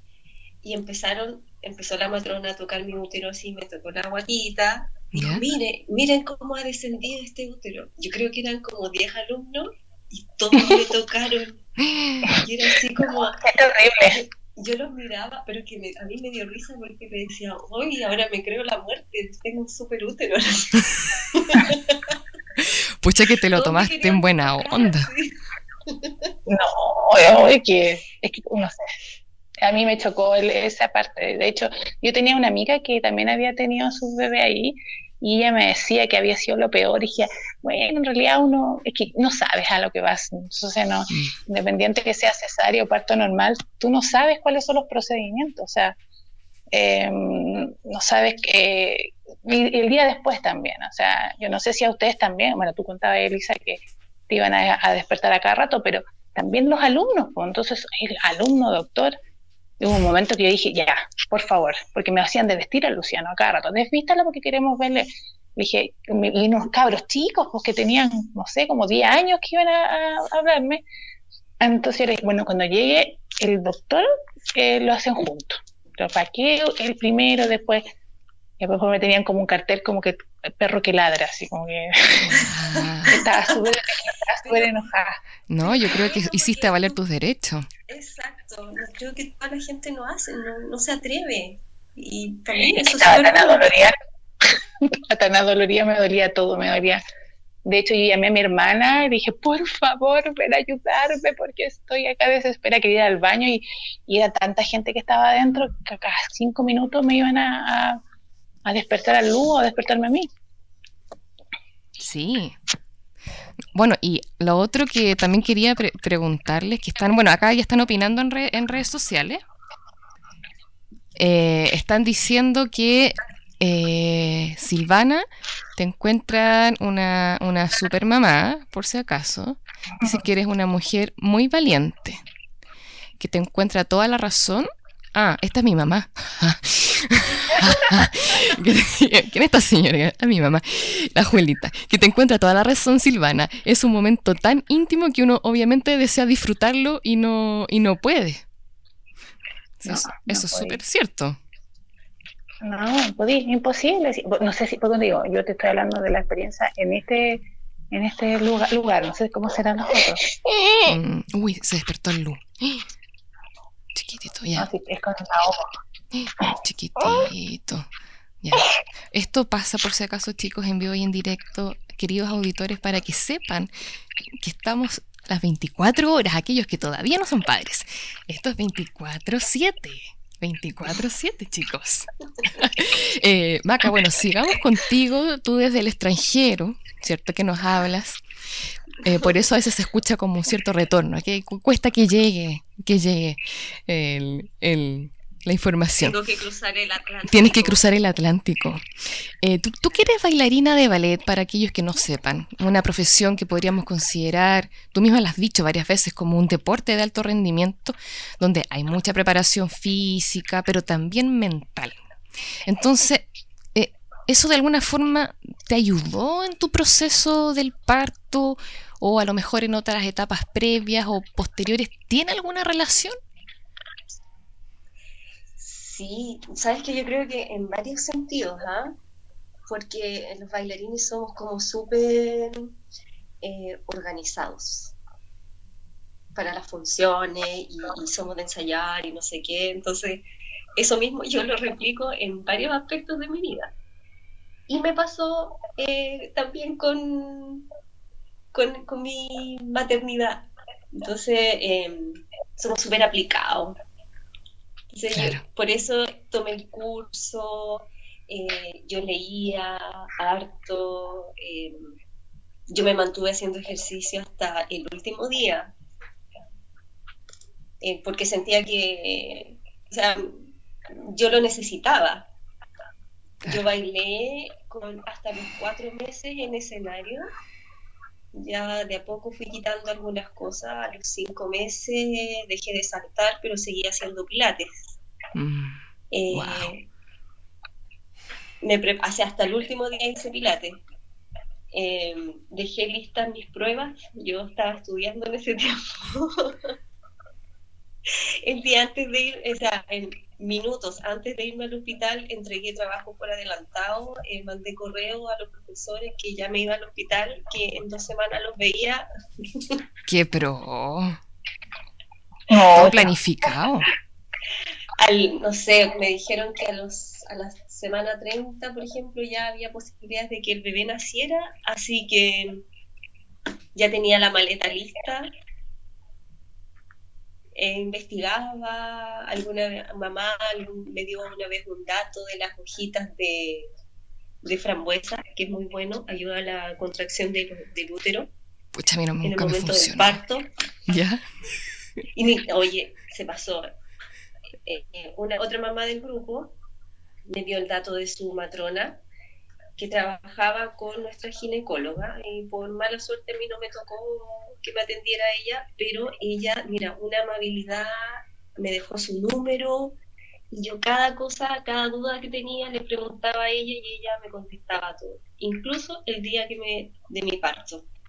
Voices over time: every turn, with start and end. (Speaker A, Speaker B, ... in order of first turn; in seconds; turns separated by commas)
Speaker A: 0.6-11.6, Speaker B: 5.1-5.4, Speaker B: 11.8-12.4, Speaker A: 12.4-13.4, Speaker C: 13.0-14.2, Speaker A: 14.0-22.2, Speaker B: 22.6-25.1, Speaker A: 23.5-26.3, Speaker C: 26.5-28.8, Speaker C: 29.6-46.0, Speaker C: 46.7-59.1, Speaker C: 59.8-70.8, Speaker C: 71.6-77.8, Speaker C: 78.6-82.4, Speaker B: 82.3-83.2, Speaker C: 83.1-85.2, Speaker A: 83.2-83.5, Speaker A: 84.4-84.7, Speaker B: 85.5-87.7, Speaker A: 85.6-87.0, Speaker A: 87.9-93.7, Speaker C: 92.9-94.0, Speaker C: 95.1-97.0, Speaker C: 97.6-108.0, Speaker C: 108.6-110.3, Speaker B: 112.0-112.5, Speaker B: 113.7-119.4, Speaker B: 121.2-125.2, Speaker B: 125.8-132.2, Speaker B: 133.2-148.4, Speaker B: 149.8-151.4, Speaker C: 149.9-150.8, Speaker C: 152.6-160.2, Speaker B: 160.8-162.9, Speaker B: 163.9-164.7, Speaker C: 164.6-165.7, Speaker B: 166.1-167.9, Speaker B: 168.4-173.7, Speaker B: 174.4-188.2, Speaker B: 189.0-196.2, Speaker A: 196.0-197.8, Speaker B: 197.3-198.8, Speaker B: 199.4-212.0, Speaker B: 212.6-223.2, Speaker A: 225.6-229.0, Speaker A: 229.7-232.7, Speaker A: 233.4-235.0, Speaker A: 236.3-240.2, Speaker A: 240.8-243.7, Speaker A: 244.7-247.7, Speaker A: 248.5-253.8, Speaker A: 254.9-261.8, Speaker B: 255.1-255.4, Speaker A: 262.7-265.7, Speaker A: 267.8-272.3, Speaker A: 273.4-277.3, Speaker A: 278.3-285.0, Speaker B: 285.4-285.8, Speaker A: 286.1-286.9, Speaker B: 286.3-286.7, Speaker A: 288.6-290.8, Speaker A: 291.7-296.7, Speaker A: 298.1-309.8, Speaker B: 310.1-311.2, Speaker C: 312.5-313.1, Speaker B: 312.6-313.9, Speaker A: 315.0-322.6, Speaker A: 323.8-325.3, Speaker A: 327.6-333.7, Speaker A: 334.4-338.3, Speaker B: 338.7-340.2, Speaker A: 339.2-340.5, Speaker B: 340.9-341.2, Speaker A: 342.1-343.7, Speaker A: 344.6-346.6, Speaker A: 347.3-349.0, Speaker A: 349.8-360.0, Speaker A: 360.5-367.9